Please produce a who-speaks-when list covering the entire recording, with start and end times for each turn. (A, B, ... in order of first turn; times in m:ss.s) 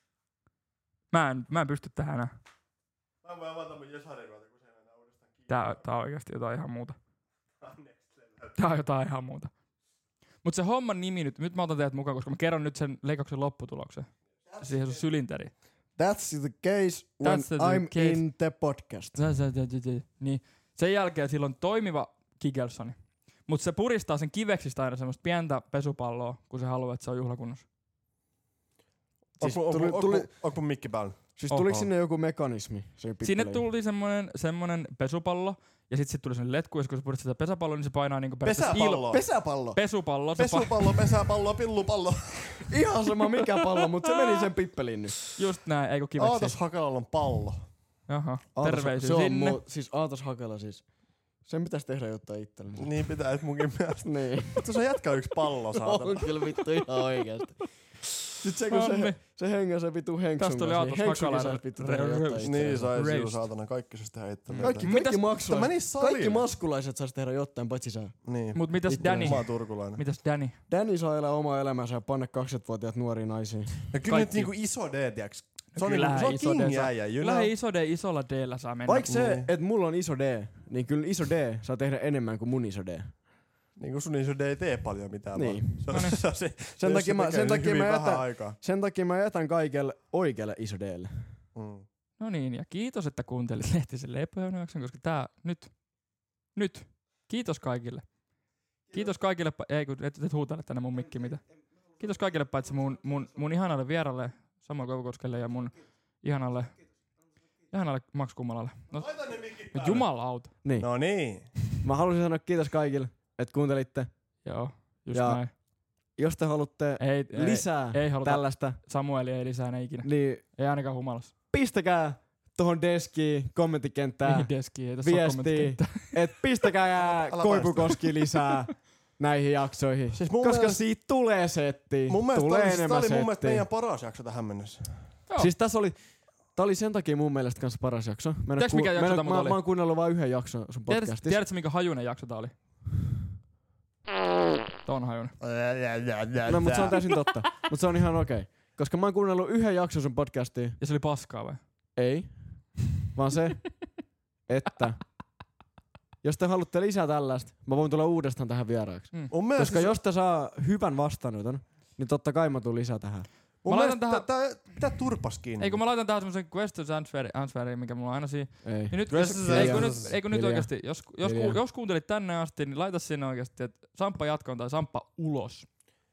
0:01.1-0:02.3 A
0:03.2-0:05.8 B
0:05.5-0:07.0 A
0:07.6-0:08.6 B
0:08.6-0:09.5 A
0:10.4-0:15.6 A
0:16.0-0:19.2 C
0:17.2-0:18.2 A
0:19.1-0:27.6 A
0:29.4-0:30.3 C
0:29.4-0:31.9 B
0:31.4-0:33.6 C
0:31.5-0:31.8 A
0:33.2-0:40.8 A
0:38.4-0:39.2 B
0:39.1-0:39.8 C
0:40.4-0:42.7 B
0:42.7-0:45.2 C
0:45.3-0:46.6 A
0:46.2-0:47.7 B
0:48.1-0:49.6 A
0:48.5-0:53.0 C
0:52.8-0:56.7 B
0:54.0-0:54.6 C
0:55.7-0:57.7 C
0:58.4-1:02.9 C
0:58.7-0:59.2 A
1:00.4-1:03.5 A
1:02.4-1:06.5 B
1:04.5-1:05.3 A
1:04.6-1:09.5 C
1:08.2-1:10.0 B
1:08.5-1:10.6 A
1:10.7-1:13.9 C
1:13.9-1:17.5 B
1:14.1-1:14.5 A
1:15.7-1:19.1 A
1:18.8-1:23.1 C
1:19.0-1:19.5 B
1:23.8-1:28.6 B
1:25.3-1:26.1 C
1:25.9-1:26.2 A
1:26.8-1:31.4 C
1:31.5-1:31.8 B
1:32.2-1:47.0 A
1:47.7-1:50.5 A
1:48.9-1:51.6 B
1:50.6-1:50.9 C
1:51.8-1:54.1 C
1:54.4-1:55.5 A
1:55.1-1:58.8 C
1:57.0-2:01.3 A
2:00.0-2:00.4 C
2:01.5-2:13.6 C
2:04.2-2:06.3 A
2:07.0-2:08.1 B
2:10.1-2:10.8 B
2:12.1-2:15.2 B
2:15.3-2:15.5 A
2:15.4-2:21.4 C
2:18.6-2:19.6 A
2:20.9-2:22.6 A
2:24.8-2:25.3 A
2:25.4-2:27.1 B
2:26.4-2:30.8 C
2:30.8-2:31.6 A
2:32.0-2:35.1 C
2:36.2-2:43.3 C
2:39.3-2:40.0 B
2:43.6-2:45.8 B
2:43.6-2:44.6 A
2:45.6-2:55.7 A
2:48.6-2:51.6 C
2:49.1-2:50.1 B